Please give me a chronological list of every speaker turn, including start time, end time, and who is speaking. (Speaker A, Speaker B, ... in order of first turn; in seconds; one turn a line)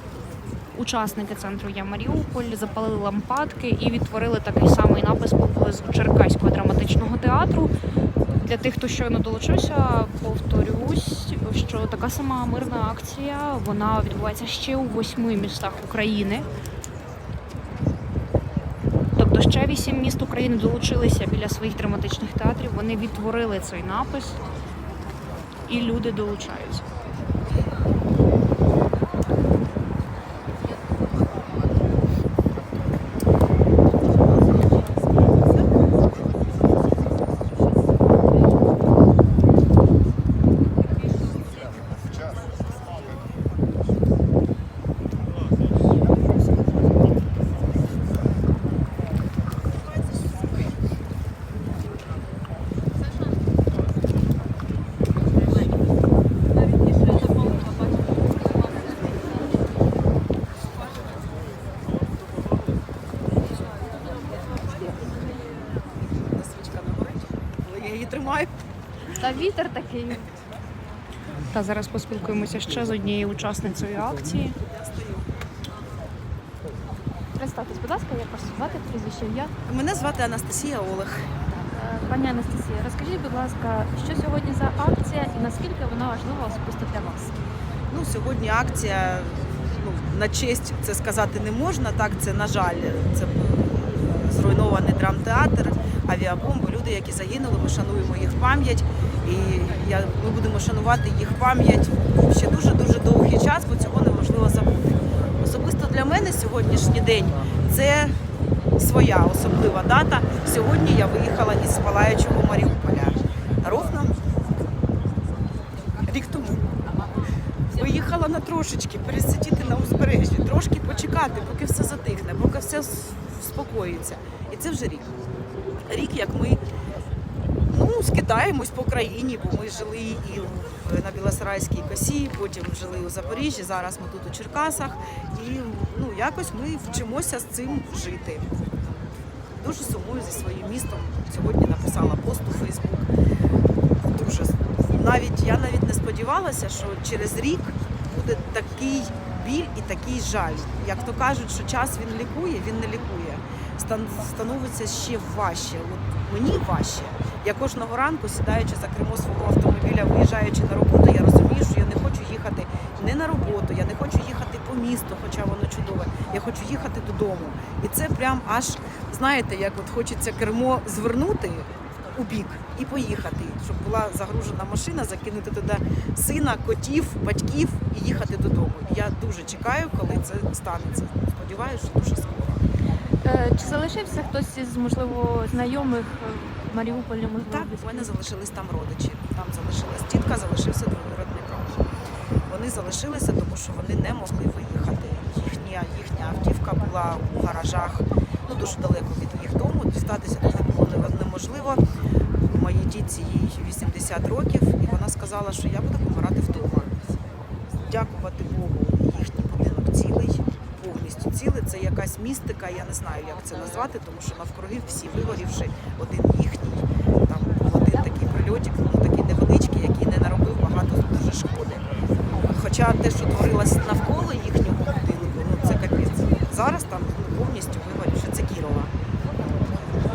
Speaker A: 0.7-7.7
Speaker A: 8.4-16.4
Speaker A: 19.2-24.4
Speaker A: 25.7-26.8
Speaker B: 66.0-68.5
Speaker C: 69.1-70.3
Speaker A: 71.5-74.5
Speaker B: 74.6-75.3
Speaker C: 77.4-79.5
Speaker B: 79.7-81.3
Speaker C: 81.7-87.3
Speaker B: 87.9-108.2
Speaker B: 108.8-114.2
Speaker B: 116.0-116.8
Speaker B: 117.7-125.1
Speaker B: 125.8-126.6
Speaker B: 127.7-138.5
Speaker B: 139.5-143.1
Speaker B: 144.0-182.7
Speaker C: 183.2-188.1
Speaker B: 187.5-191.9
Speaker B: 192.5-201.8
Speaker B: 202.5-206.9
Speaker B: 207.8-221.9
Speaker B: 222.5-228.9